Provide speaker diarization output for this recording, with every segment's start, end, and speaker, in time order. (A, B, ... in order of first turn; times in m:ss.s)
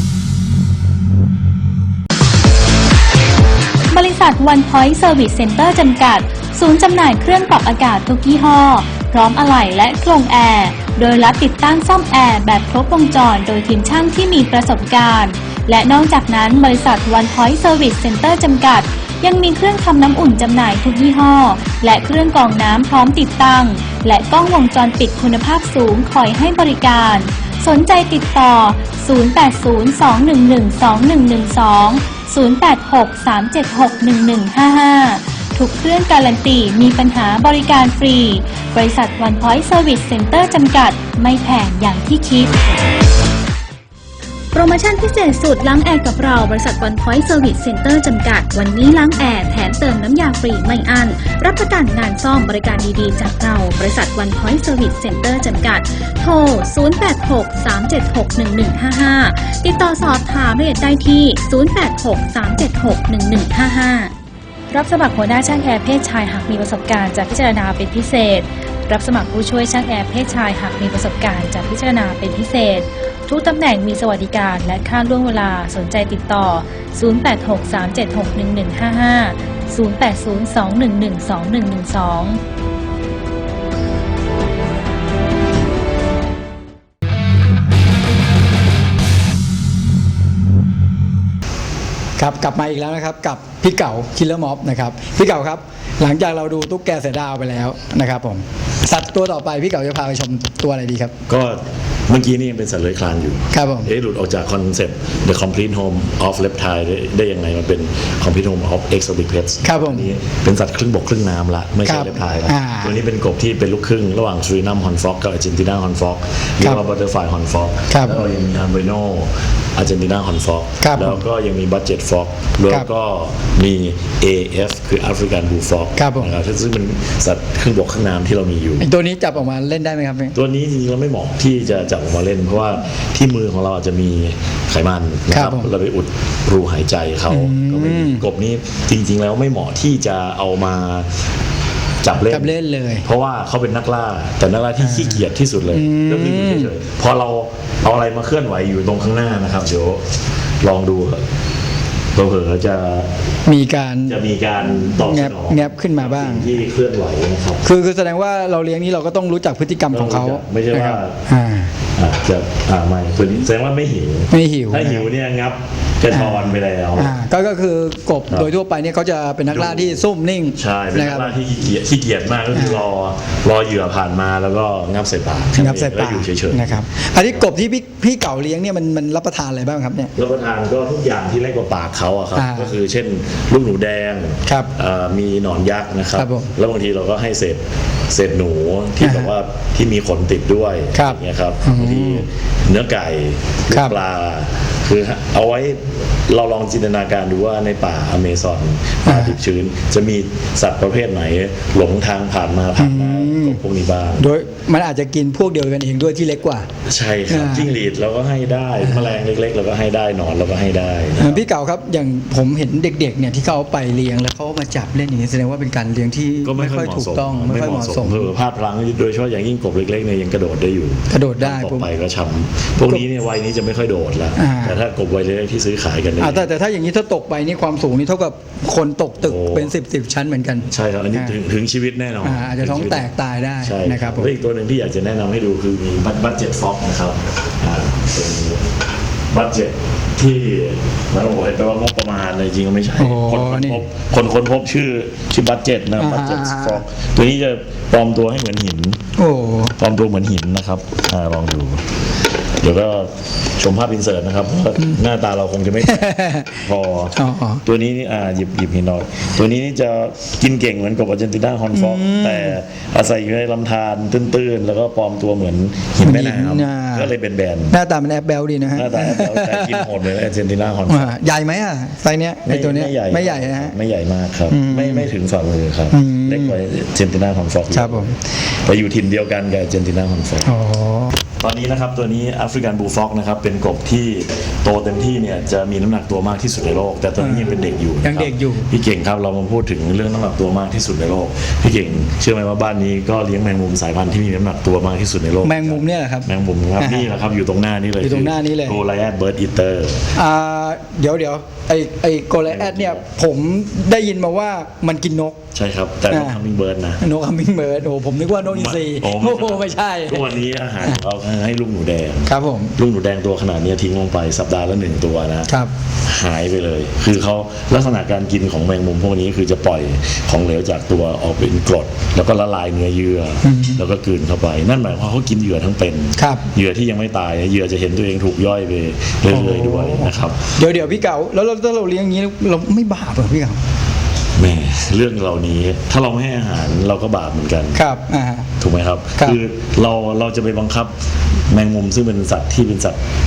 0:03.9-0:42.5 A
0:44.5-1:04.1 A
1:04.7-1:22.4 A
1:32.2-1:41.1 B
1:41.3-2:08.8 C
1:43.5-1:43.9 B
1:49.6-1:50.1 B
1:51.8-1:53.0 B
1:57.9-1:58.2 B
2:00.8-2:01.2 B
2:06.0-2:06.3 B
2:08.8-2:10.3 B
2:10.3-2:21.1 C
2:15.3-2:15.7 B
2:17.3-2:18.2 B
2:22.0-2:22.5 C
2:22.3-2:23.0 B
2:23.0-2:30.0 C
2:24.8-2:26.7 B
2:30.6-2:31.2 C
2:32.1-2:33.1 C
2:33.4-2:34.2 B
2:34.0-2:37.6 C
2:34.8-2:36.6 B
2:37.6-2:41.7 B
2:39.9-2:41.2 C
2:42.0-2:47.1 C
2:44.3-2:45.1 B
2:46.1-2:51.4 B
2:49.5-2:56.8 C
2:52.5-2:52.8 B
2:55.6-3:00.1 B
3:00.1-3:24.3 C
3:02.3-3:02.7 B
3:04.4-3:04.7 B
3:06.2-3:06.5 B
3:09.0-3:09.3 B
3:10.9-3:12.2 B
3:13.7-3:14.0 B
3:19.0-3:19.4 B
3:22.8-3:23.6 B
3:24.2-3:26.7 B
3:26.8-3:31.4 C
3:27.3-3:27.7 B
3:28.8-3:29.1 B
3:31.2-3:38.3 B
3:36.4-3:46.5 C
3:41.1-3:41.9 B
3:44.4-3:44.8 B
3:46.2-3:51.4 B
3:49.2-3:49.7 C
3:50.6-3:53.1 C
3:52.2-3:54.3 B
3:53.6-3:58.6 C
3:59.3-4:09.0 C
4:03.0-4:03.8 B
4:06.0-4:06.8 B
4:09.2-4:09.7 B
4:09.8-4:11.8 C
4:12.6-4:27.7 C
4:15.8-4:16.6 B
4:17.1-4:17.6 B
4:21.7-4:22.6 B
4:26.0-4:27.1 B
4:27.7-4:29.9 B
4:28.7-4:31.1 C
4:30.9-4:33.7 B
4:32.4-4:40.5 C
4:34.5-4:35.1 B
4:35.9-4:36.6 B
4:37.7-4:38.2 B
4:40.4-4:41.2 B
4:41.4-5:00.0 C
4:47.2-4:48.7 B
4:55.4-4:57.1 B
4:58.0-4:58.8 B
5:00.1-5:05.4 B
5:02.5-5:03.0 C
5:05.5-5:07.0 C
5:06.1-5:06.4 B
5:07.0-5:10.3 B
5:08.4-5:15.5 C
5:12.2-5:12.7 B
5:16.0-5:30.6 C
5:23.4-5:23.8 B
5:26.2-5:26.5 B
5:29.3-5:33.6 B
5:34.4-5:37.8 C
5:37.7-5:38.5 B
5:38.6-5:40.9 C
5:41.5-5:43.0 C